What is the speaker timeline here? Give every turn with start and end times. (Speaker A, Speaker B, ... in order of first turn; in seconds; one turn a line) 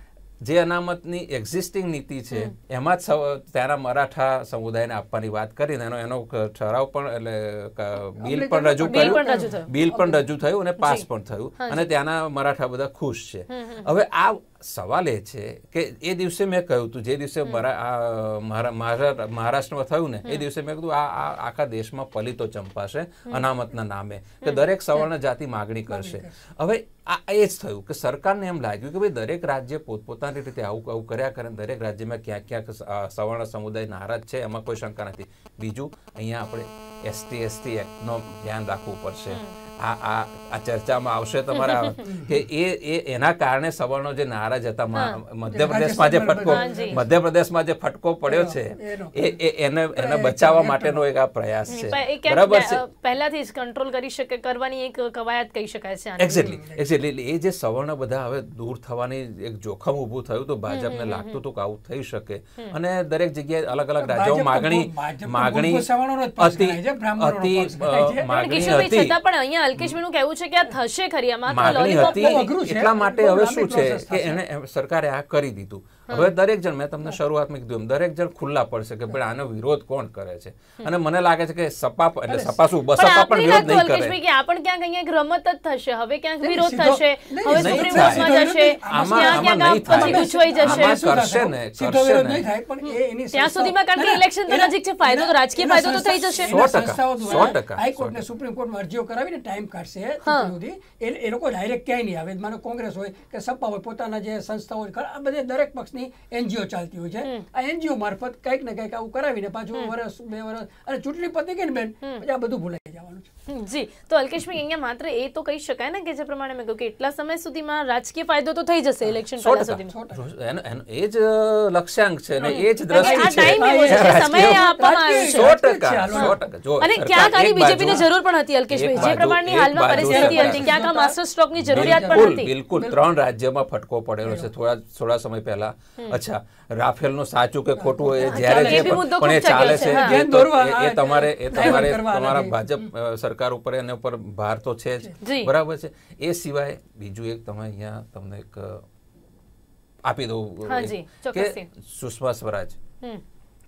Speaker A: 0.4-52.8
Speaker B: 8.2-10.3
Speaker C: 8.9-9.7
Speaker C: 10.8-11.1
Speaker C: 11.6-11.9
Speaker C: 13.5-13.9
Speaker B: 25.9-26.4
Speaker C: 41.5-42.0
Speaker B: 42.0-42.3
Speaker C: 44.9-45.2
Speaker B: 45.5-47.1
Speaker C: 46.5-47.0
Speaker B: 48.3-49.4
Speaker B: 50.0-51.0
Speaker C: 51.7-56.5
Speaker A: 56.2-69.2
Speaker B: 56.3-56.9
Speaker C: 60.7-61.4
Speaker B: 64.0-68.3
Speaker C: 68.3-72.5
Speaker A: 71.5-84.2
Speaker B: 71.8-74.4
Speaker B: 82.3-82.6
Speaker C: 83.0-91.0
Speaker B: 86.4-113.3
Speaker A: 87.5-92.5
Speaker C: 92.8-97.6
Speaker A: 96.5-98.2
Speaker C: 100.2-100.5
Speaker C: 113.5-119.9
Speaker A: 119.3-128.1
Speaker B: 119.9-120.2
Speaker B: 122.4-126.4
Speaker C: 122.5-125.5
Speaker C: 126.1-132.5
Speaker A: 128.7-130.8
Speaker B: 129.0-129.2
Speaker B: 129.8-133.0
Speaker A: 131.6-148.9
Speaker B: 137.8-139.0
Speaker C: 138.2-140.2
Speaker B: 139.6-142.6
Speaker C: 141.6-141.8
Speaker C: 145.2-145.5
Speaker A: 150.1-152.8
Speaker C: 150.7-151.7